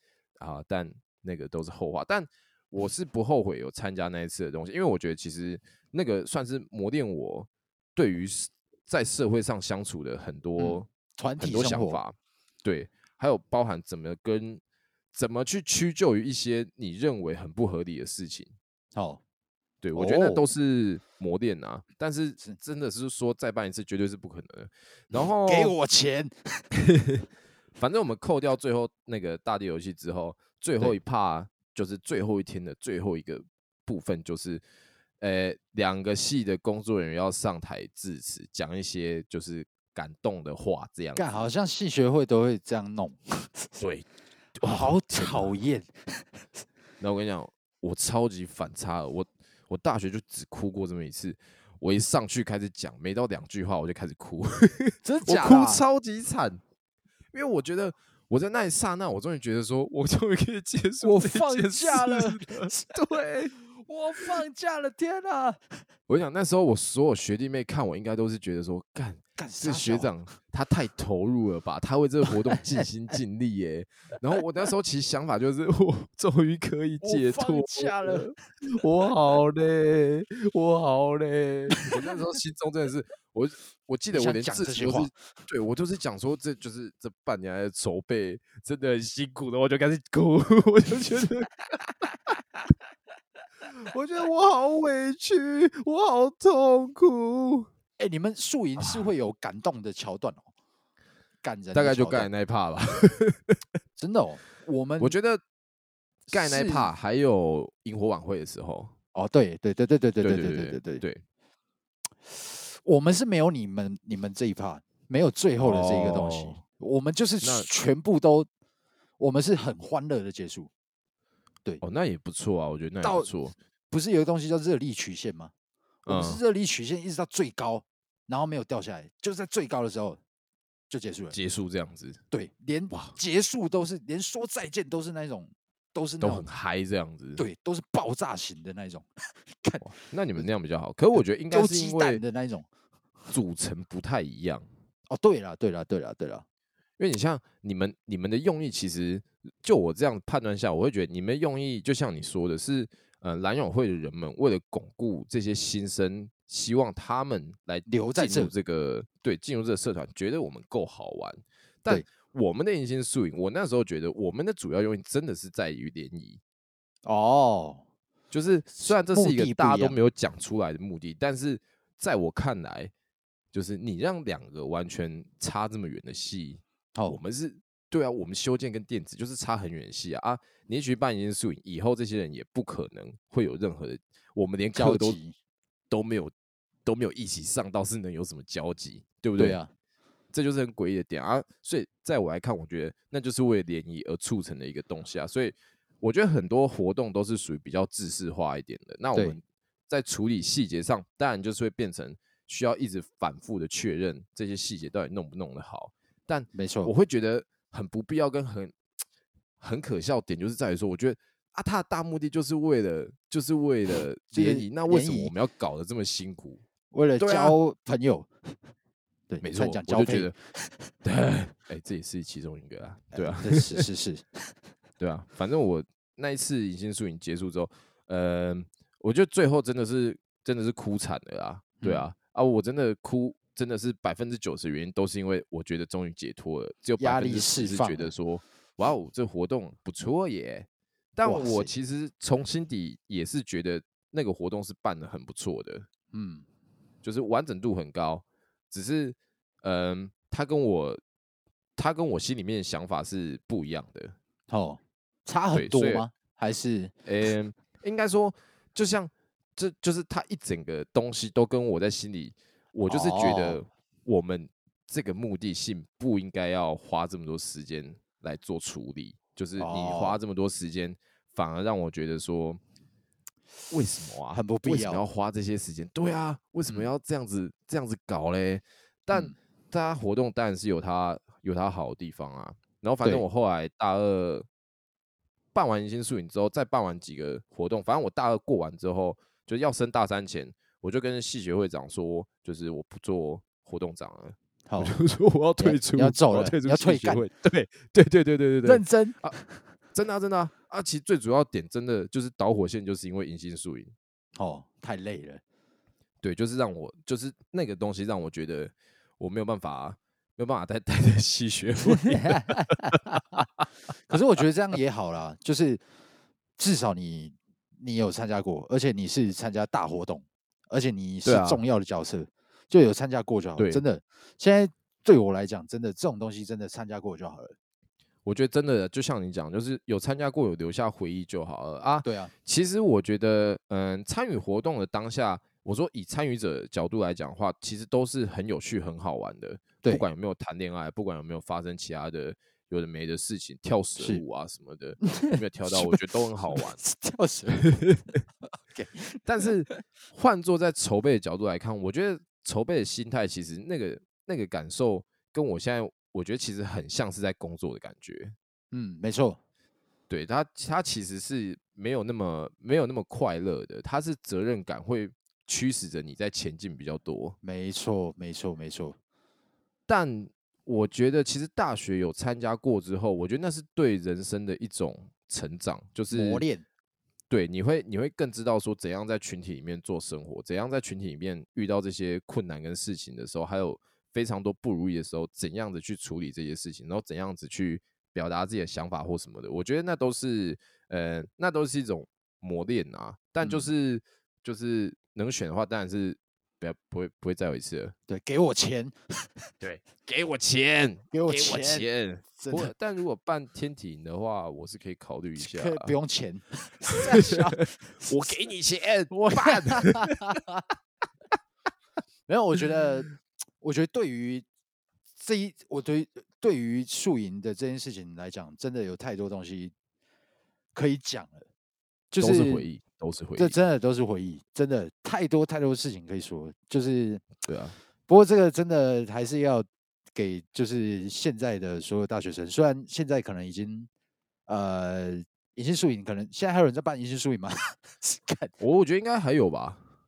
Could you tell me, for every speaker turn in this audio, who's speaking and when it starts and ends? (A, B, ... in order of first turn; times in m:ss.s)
0:00.4-0:10.9 A
0:10.6-0:12.0 B
0:11.4-0:14.6 A
0:15.1-0:18.5 A
0:18.9-0:19.2 B
0:19.8-0:25.7 A
0:19.9-0:20.5 B
0:25.1-0:26.6 B
0:26.9-0:27.2 A
0:27.8-0:34.6 A
0:35.2-0:41.2 A
0:41.1-0:43.7 B
0:43.8-0:44.1 A
0:44.6-0:45.5 A
0:44.6-0:46.3 B
0:47.0-0:56.6 A
0:55.0-0:55.8 B
0:57.3-1:03.5 A
1:01.0-1:02.9 B
1:03.8-1:05.8 B
1:06.1-1:31.5 A
1:09.4-1:10.1 B
1:17.0-1:18.3 B
1:24.1-1:25.1 B
1:33.8-1:37.7 A
1:38.0-1:40.5 B
1:41.4-1:42.3 B
1:41.7-1:43.6 A
1:44.0-1:45.2 B
1:45.0-1:45.4 A
1:46.3-1:48.9 A
1:46.3-1:46.9 B
1:49.1-1:51.0 B
1:50.2-1:51.2 A
1:52.3-1:58.5 B
1:55.6-1:56.6 A
1:57.4-1:57.7 A
1:59.2-2:00.7 B
2:01.8-2:03.6 A
2:03.0-2:03.3 B
2:03.9-2:05.5 B
2:06.0-2:06.4 A
2:06.0-2:10.2 B
2:10.9-2:11.4 B
2:11.3-2:12.2 A
2:12.3-2:16.4 B
2:12.9-2:13.2 A
2:16.2-2:17.4 A
2:17.4-2:20.4 B
2:19.8-2:22.2 A
2:21.2-2:22.7 B
2:23.3-2:24.6 A
2:25.1-2:26.4 B
2:27.0-2:46.4 A
2:37.9-2:38.5 B
2:47.0-2:47.8 B
2:48.3-2:52.9 A
2:48.8-2:50.0 B
2:53.5-3:05.2 A
3:04.7-3:05.4 B
3:05.9-3:06.3 A
3:06.8-3:09.6 A
3:09.4-3:09.7 B
3:10.3-3:28.8 A
3:26.5-3:26.9 B
3:29.6-3:36.6 A
3:34.3-3:35.3 B
3:36.9-3:38.5 B
3:37.2-3:37.6 A
3:39.3-3:40.9 B
3:39.4-3:40.3 A
3:41.0-3:43.8 A
3:43.1-3:44.5 B
3:45.0-4:05.9 A
3:51.8-3:52.0 B
3:57.0-3:58.1 B
4:01.2-4:01.7 B
4:06.1-4:06.4 B
4:07.0-4:11.0 A
4:11.8-4:14.1 A
4:14.5-4:16.9 B
4:15.5-4:16.1 A
4:17.0-4:32.6 A
4:22.8-4:23.6 B
4:29.6-4:30.2 B
4:33.7-4:44.5 A
4:34.3-4:35.0 B
4:36.6-4:36.9 B
4:45.5-4:59.3 A
4:54.7-4:55.0 B
4:55.6-4:57.2 B
4:58.6-4:59.6 B
4:59.9-5:03.9 A
5:04.4-5:05.4 B
5:06.2-5:13.0 A
5:12.0-5:13.4 B
5:14.1-5:15.8 B
5:16.6-5:27.5 B
5:21.2-5:21.6 A
5:23.6-5:23.8 A
5:28.2-5:46.8 A
5:32.0-5:32.3 B
5:44.0-5:44.2 B
5:45.0-5:47.8 B
5:48.7-5:49.8 B
5:49.2-5:58.3 A
5:58.7-5:59.4 B
6:00.1-6:07.4 A
6:07.4-6:09.0 B
6:09.9-6:16.4 A
6:16.1-6:16.6 B
6:17.3-6:37.9 A
6:33.4-6:33.7 B
6:38.1-6:39.5 B
6:39.6-6:45.9 A
6:41.1-6:42.7 B
6:45.4-6:48.4 B
6:47.0-6:47.4 A
6:48.0-6:50.4 A
6:49.3-6:50.6 B
6:52.3-6:54.4 B
6:55.2-6:59.7 B
7:00.7-7:01.4 B
7:02.1-7:02.6 B
7:02.2-7:03.6 A
7:03.4-7:07.2 B
7:07.4-7:07.8 A
7:08.1-7:13.9 B
7:14.5-7:18.5 B
7:18.6-7:19.8 A